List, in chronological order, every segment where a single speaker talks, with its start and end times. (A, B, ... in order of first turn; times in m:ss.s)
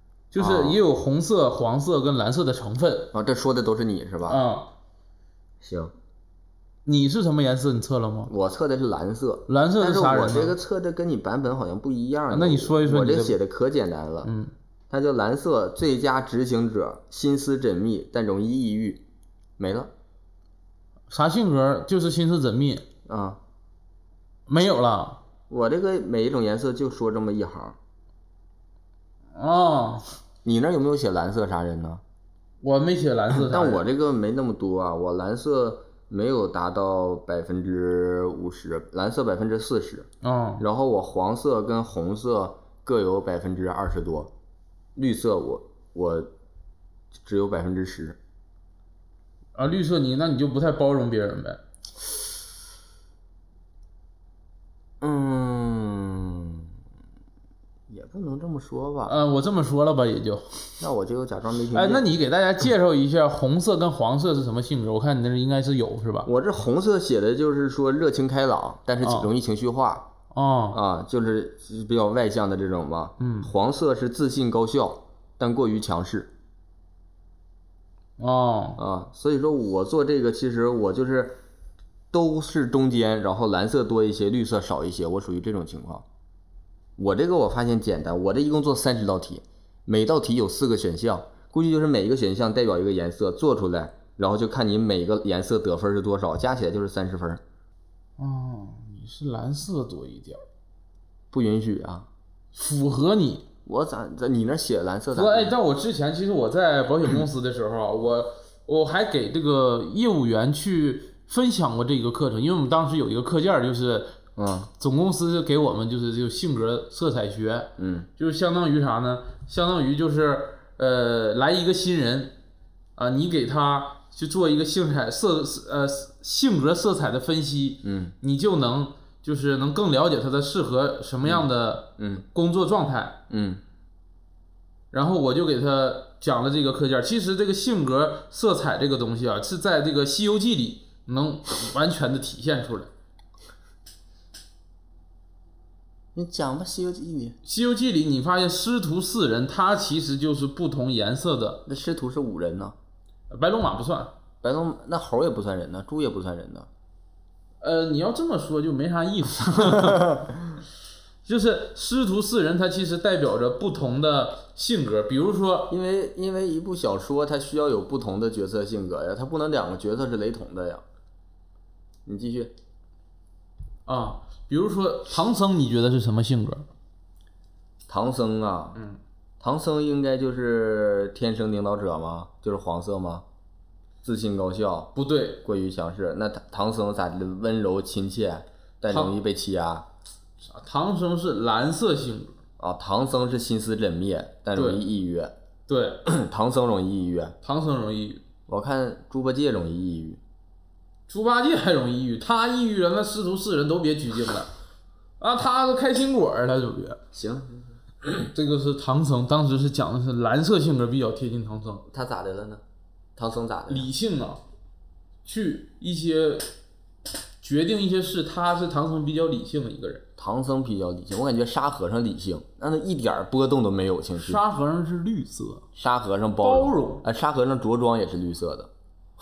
0:00.3-0:03.1 A
0:00.4-0:00.8 B
0:03.1-0:04.4 B
0:04.3-0:04.7 A
0:05.6-0:05.9 B
0:06.9-0:08.3 A
0:08.3-0:14.3 B
0:09.5-0:10.6 A
0:12.3-0:13.4 A
0:14.2-0:14.5 A
0:14.9-0:19.0 B
0:19.6-0:19.9 B
0:21.1-0:22.8 A
0:23.1-0:23.4 B
0:24.5-0:25.2 A
0:25.5-0:27.8 B
0:29.4-0:30.1 A
0:30.4-0:32.0 B
0:32.6-0:33.8 A
0:33.3-0:40.1 B
0:40.2-0:40.6 A
0:40.6-0:44.3 B
0:45.0-0:46.3 B
0:47.2-0:48.2 B
0:49.6-0:51.6 A
0:55.0-0:56.7 B
0:57.9-0:59.2 B
0:59.1-1:00.8 A
1:00.8-1:02.1 B
1:01.7-1:06.3 A
1:06.2-1:10.1 B
1:09.0-1:09.3 A
1:10.3-1:10.8 A
1:10.7-1:16.3 B
1:13.2-1:13.5 A
1:18.2-1:18.8 A
1:18.8-1:21.4 B
1:22.1-1:26.0 B
1:27.0-1:37.4 B
1:38.2-1:40.4 A
1:41.3-1:42.1 B
1:42.5-1:43.5 A
1:43.6-1:45.6 B
1:45.1-1:54.1 A
1:54.4-1:54.7 B
1:54.8-2:02.4 A
1:57.8-1:58.1 B
2:03.0-2:13.2 A
2:07.8-2:08.1 B
2:12.0-2:12.3 B
2:13.3-2:13.6 B
2:14.9-2:22.9 A
2:26.2-2:27.4 B
2:27.4-2:31.6 A
2:31.7-2:32.8 B
2:33.3-2:34.1 A
2:34.4-2:36.7 B
2:37.6-2:40.2 A
2:39.7-2:40.3 B
2:41.2-2:45.7 A
2:45.7-2:50.8 B
2:52.1-2:52.5 B
2:53.9-2:56.7 A
2:57.9-2:58.8 B
2:58.8-2:59.0 A
2:59.4-3:03.2 B
3:04.0-3:09.9 B
3:05.0-3:05.4 A
3:08.9-3:09.2 A
3:10.4-3:12.4 A
3:12.6-3:15.3 B
3:14.6-3:14.8 A
3:15.7-3:16.0 A
3:16.1-3:17.4 B
3:17.4-3:18.2 A
3:18.5-3:20.2 B
3:21.1-3:24.5 A
3:25.2-3:27.0 A
3:27.1-3:27.8 B
3:28.2-3:31.8 A
3:31.9-3:32.6 B
3:33.2-3:33.9 B
3:33.7-3:34.4 A
3:35.2-3:36.5 A
3:37.4-3:40.0 A
3:40.2-3:44.4 B
3:44.2-3:45.6 A
3:45.8-3:48.7 B
3:46.4-3:47.0 A